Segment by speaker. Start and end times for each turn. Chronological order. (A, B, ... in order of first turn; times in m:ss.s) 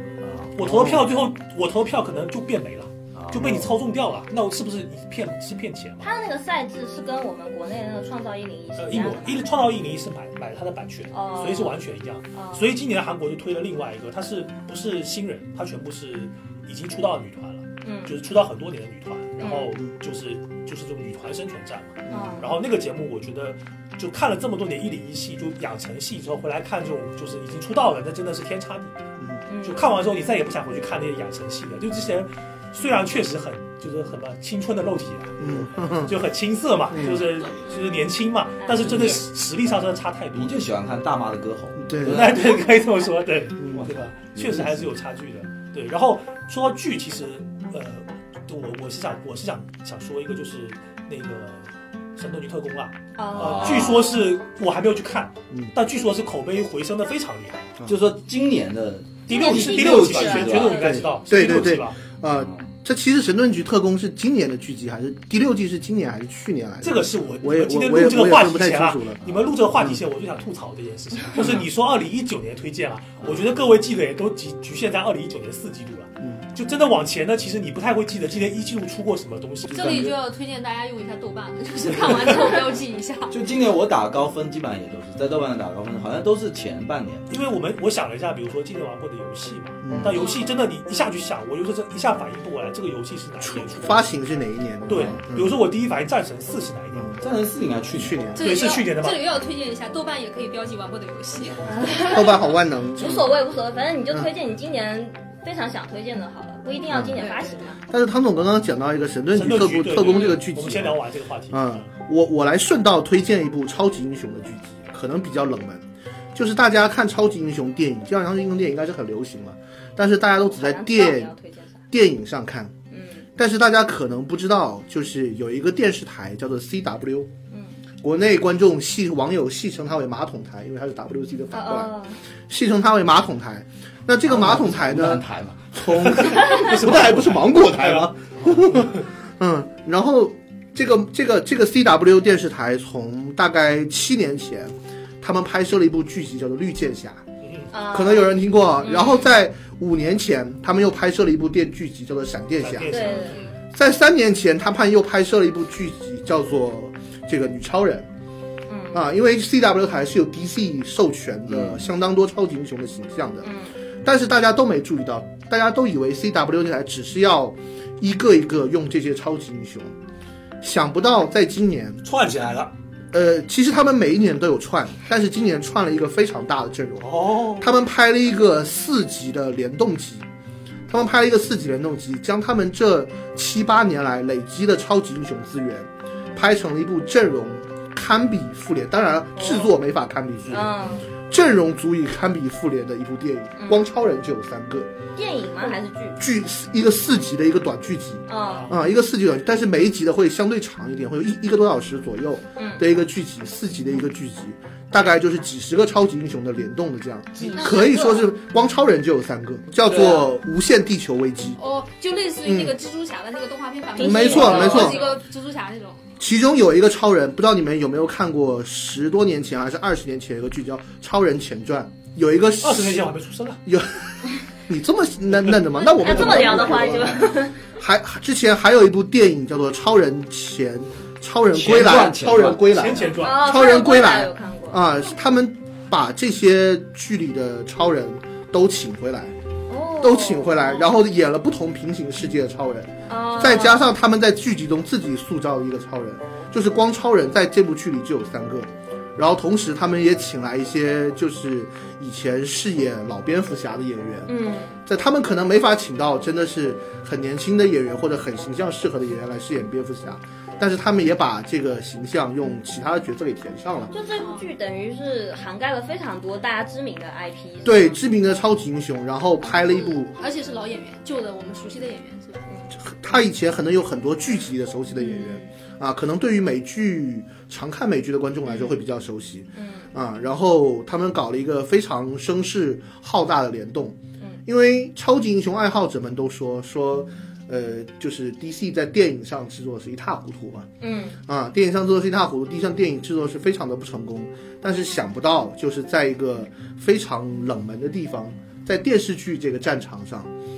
0:00.2-0:00.5 A
0:00.6-0:06.1 B
0:00.6-0:01.1 C
0:03.1-0:03.7 A
0:06.0-0:09.5 D
0:08.8-0:29.0 B
0:11.1-0:12.7 D
0:17.8-0:18.2 D
0:19.4-0:19.7 D
0:22.1-0:22.4 C
0:22.1-0:22.5 D
0:29.5-0:29.9 D
0:29.6-0:40.6 B
0:35.4-0:36.2 C
0:36.9-0:37.2 C
0:38.6-0:39.0 D
0:38.9-0:39.2 A
0:40.3-0:42.9 A
0:41.8-0:42.3 C
0:42.0-0:57.7 B
0:43.6-0:43.9 C
0:43.8-0:44.9 A
0:53.2-0:54.2 D
0:53.3-0:54.0 A
0:57.9-1:01.0 A
0:59.3-1:02.0 B
0:59.3-1:01.1 D
1:00.9-1:10.0 C
1:02.4-1:02.7 A
1:06.8-1:20.1 B
1:13.2-1:13.5 A
1:16.2-1:16.4 C
1:19.7-1:23.4 E
1:19.7-1:20.1 A
1:23.3-1:27.3 A
1:27.3-1:34.0 B
1:29.8-1:30.3 C
1:30.1-1:30.5 E
1:33.4-1:35.6 C
1:34.9-1:37.2 B
1:37.2-1:38.3 A
1:38.0-1:38.5 C
1:38.4-1:39.2 B
1:38.4-1:42.1 E
1:41.7-1:47.8 D
1:42.0-1:43.3 C
1:46.9-1:47.2 C
1:47.2-1:47.6 E
1:47.9-2:01.3 C
1:49.3-1:51.9 B
2:00.4-2:01.8 D
2:01.9-2:02.7 C
2:02.9-2:03.3 D
2:03.4-2:07.3 C
2:08.0-2:12.0 C
2:11.5-2:12.2 D
2:12.5-2:27.3 C
2:14.3-2:15.8 A
2:15.8-2:18.1 B
2:27.4-2:27.7 B
2:27.7-2:29.4 D
2:27.9-2:33.2 C
2:32.6-2:33.4 B
2:32.9-2:33.4 D
2:33.7-2:38.1 C
2:38.7-2:39.1 D
2:38.9-2:43.5 C
2:41.5-2:41.8 A
2:43.4-2:43.7 D
2:44.0-2:50.0 C
2:50.6-2:52.0 C
2:52.0-2:52.7 B
2:53.1-3:00.3 C
2:57.0-2:57.7 B
3:00.9-3:14.9 C
3:09.4-3:09.7 D
3:10.5-3:11.0 D
3:13.6-3:13.8 D
3:15.2-3:16.2 D
3:16.2-3:31.6 C
3:18.3-3:18.8 D
3:18.4-3:18.8 B
3:22.6-3:22.8 D
3:27.4-3:28.3 E
3:29.9-3:30.2 A
3:31.6-3:36.1 E
3:32.4-3:32.8 C
3:34.0-3:35.0 C
3:34.0-3:35.2 D
3:36.2-3:43.1 C
3:42.6-3:43.6 B
3:43.7-3:59.4 C
3:46.0-3:47.6 D
3:46.0-3:46.6 E
3:51.5-3:52.6 A
3:52.6-3:53.5 B
3:53.2-3:54.8 D
3:59.7-4:00.9 D
4:00.0-4:14.3 C
4:03.1-4:03.8 D
4:14.3-4:14.8 D
4:14.8-4:23.9 C
4:23.9-4:28.0 D
4:24.1-4:24.5 E
4:27.6-4:30.1 C
4:29.5-4:32.5 E
4:32.8-4:50.7 C
4:35.0-4:35.5 E
4:39.6-4:39.9 D
4:50.8-4:51.2 D
4:51.2-5:00.3 C